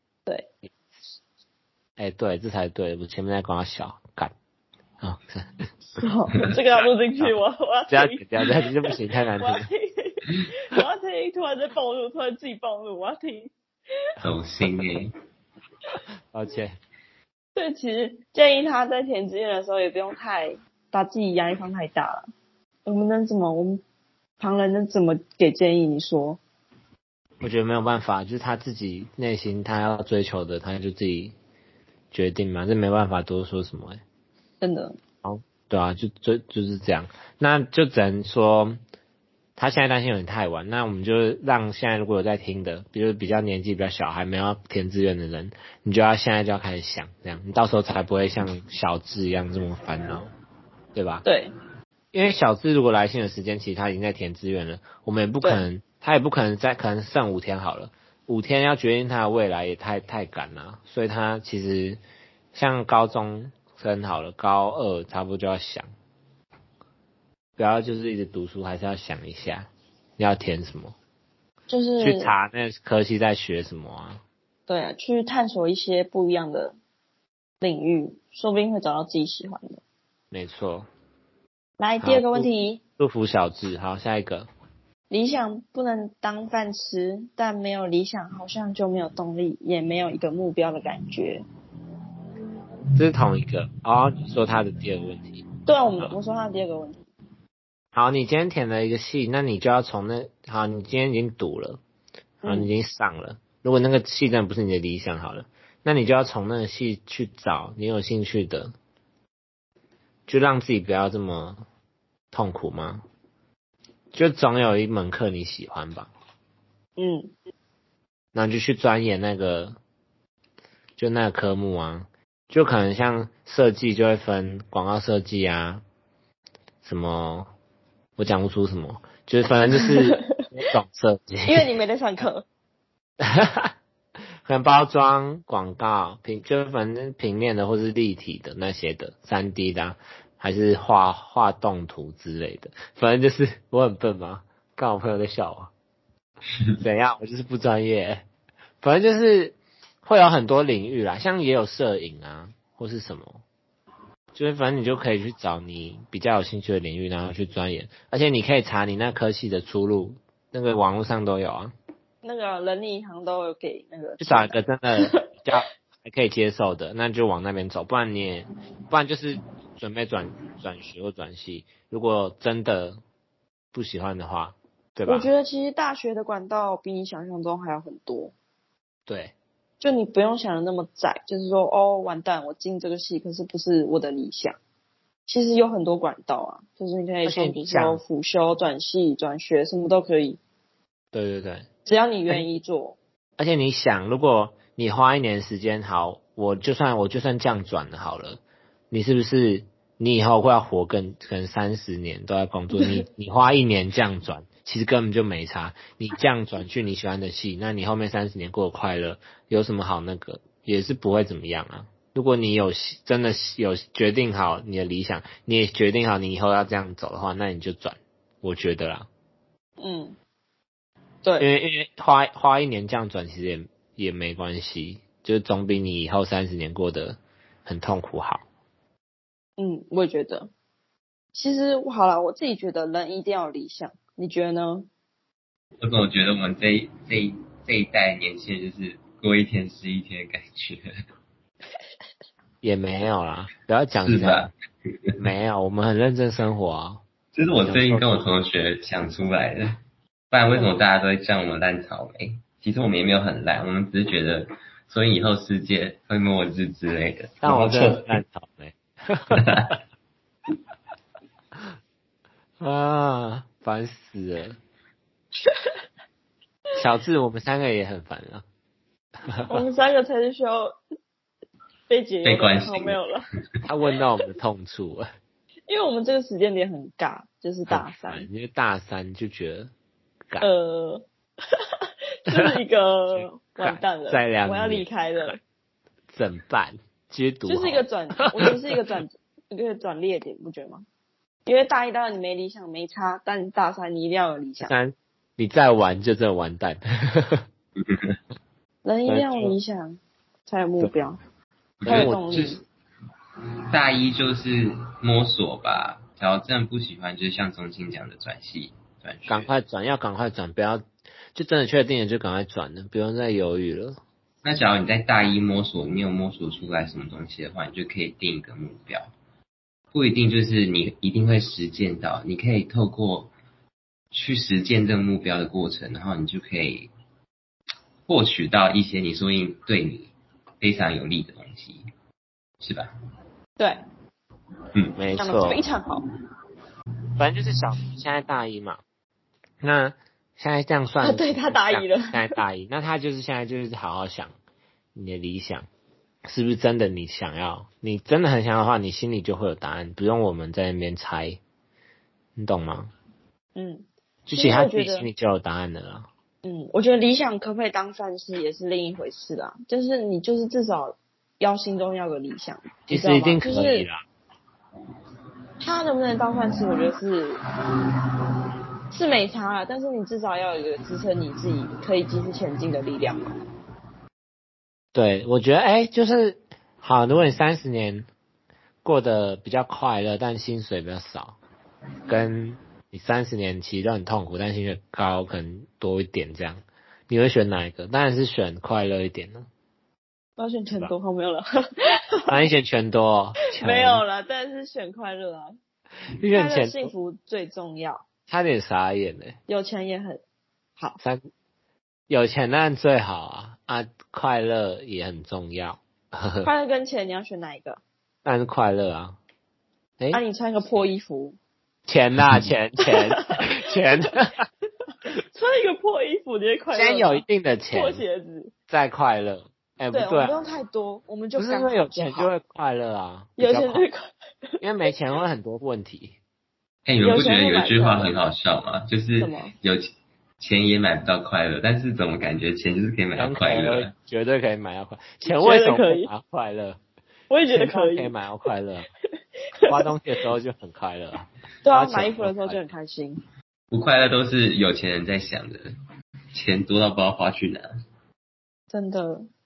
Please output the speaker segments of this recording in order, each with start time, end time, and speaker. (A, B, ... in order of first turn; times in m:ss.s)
0:02.0-0:04.3 A
0:05.0-0:05.6 A
0:06.0-0:13.5 B
0:07.9-0:09.7 A
0:14.2-0:15.1 C
0:16.3-0:16.7 A
0:17.5-0:22.3 B
0:22.8-0:23.8 B
0:24.4-0:26.4 B
0:27.4-0:31.3 A
0:32.1-0:34.0 A
0:34.6-0:35.0 B
0:35.2-0:38.8 A
0:39.6-0:50.3 A
0:50.9-0:51.2 A
0:51.2-0:51.5 B
0:52.1-1:02.0 A
1:02.5-1:05.9 A
1:07.6-1:10.9 A
1:11.7-1:12.3 B
1:12.0-1:14.2 A
1:14.7-1:16.8 B
1:17.6-1:19.8 B
1:20.3-1:20.9 A
1:21.8-1:22.8 B
1:22.0-1:22.5 A
1:23.0-1:24.5 A
1:25.1-1:31.4 B
1:33.0-1:35.4 A
1:35.6-1:37.0 B
1:37.9-1:41.8 A
1:42.4-1:42.7 B
1:42.4-1:48.7 A
1:50.3-1:51.6 A
1:52.3-1:53.0 A
1:54.1-1:56.1 A
1:57.0-1:57.3 B
1:58.3-1:59.7 A
2:01.0-2:05.8 A
2:06.8-2:07.5 A
2:08.2-2:11.7 A
2:09.7-2:10.2 B
2:11.4-2:12.4 B
2:13.2-2:13.7 A
2:14.4-2:25.7 A
2:26.8-2:28.2 A
2:28.8-2:33.4 A
2:34.3-2:41.7 A
2:42.2-2:45.2 B
2:44.2-2:53.0 A
2:53.7-2:55.3 A
2:55.0-2:58.3 B
2:59.1-2:59.3 A
2:59.8-3:04.6 B
3:05.2-3:10.4 B
3:07.2-3:08.0 A
3:11.1-3:11.6 A
3:11.8-3:13.0 B
3:13.4-3:39.1 A
3:22.7-3:23.0 B
3:39.8-3:40.2 B
3:41.4-3:48.4 A
3:49.6-3:50.5 B
3:51.3-3:54.9 B
3:55.8-4:00.8 C
4:02.6-4:04.5 A
4:04.0-4:04.5 C
4:05.2-4:07.0 A
4:07.3-4:09.7 C
4:07.6-4:08.1 A
4:10.3-4:18.2 C
4:17.4-4:19.4 A
4:19.4-4:19.8 C
4:22.6-4:24.6 A
4:26.8-4:28.4 A
4:29.3-4:29.6 A
4:29.5-4:30.8 B
4:31.9-4:33.2 B
4:32.2-4:33.0 C
4:33.6-4:35.1 A
4:35.7-4:38.3 B
4:37.7-4:39.7 A
4:40.4-4:41.0 B
4:42.2-4:45.4 B
4:43.1-4:45.4 A
4:46.1-4:47.8 A
4:47.4-4:50.8 B
4:51.4-4:54.7 B
4:54.6-4:57.4 A
4:57.8-4:58.2 C
4:58.8-5:01.2 B
4:59.1-4:59.6 A
5:01.8-5:02.6 C
5:01.8-5:02.2 A
5:01.8-5:02.6 B
5:03.7-5:09.5 C
5:09.3-5:10.8 A
5:11.3-5:14.0 A
5:14.4-5:19.1 C
5:19.9-5:23.3 C
5:24.1-5:26.9 C
5:28.1-5:31.9 C
5:32.6-5:32.9 C
5:35.0-5:35.6 A
5:35.2-5:36.0 B
5:37.2-5:38.8 A
5:39.6-5:44.3 A
5:41.0-5:42.3 B
5:44.9-5:45.7 A
5:46.3-5:51.4 A
5:52.4-5:52.9 A
5:53.5-5:55.1 B
5:54.3-5:56.1 A
5:56.4-6:03.9 B
6:02.9-6:04.0 A
6:05.6-6:07.4 B
6:08.9-6:13.4 B
6:14.9-6:18.1 A
6:18.8-6:21.4 A
6:22.1-6:29.5 A
6:30.4-6:31.4 B
6:32.3-6:34.0 A
6:33.6-6:35.5 B
6:36.2-6:36.9 A
6:36.3-6:38.0 B
6:38.3-6:39.4 A
6:39.5-6:40.2 B
6:42.1-6:46.5 A
6:46.4-6:47.8 B
6:48.2-6:49.2 A
6:50.1-6:51.4 B
6:51.9-6:54.4 A
6:52.8-6:54.2 B
6:55.3-6:58.5 B
6:56.7-6:58.0 A
6:58.7-7:00.4 A
6:59.9-7:02.3 B
7:01.4-7:03.8 A
7:03.4-7:04.6 B
7:04.6-7:06.2 A
7:06.8-7:09.9 C
7:07.0-7:08.1 B
7:09.2-7:09.5 B
7:10.4-7:13.9 C
7:13.2-7:16.8 A
7:15.2-7:16.1 B
7:17.3-7:18.1 B
7:17.5-7:18.9 A
7:19.7-7:19.9 B
7:19.7-7:22.6 A
7:21.6-7:23.2 B
7:23.7-7:25.7 C
7:26.3-7:27.7 C
7:28.7-7:29.3 B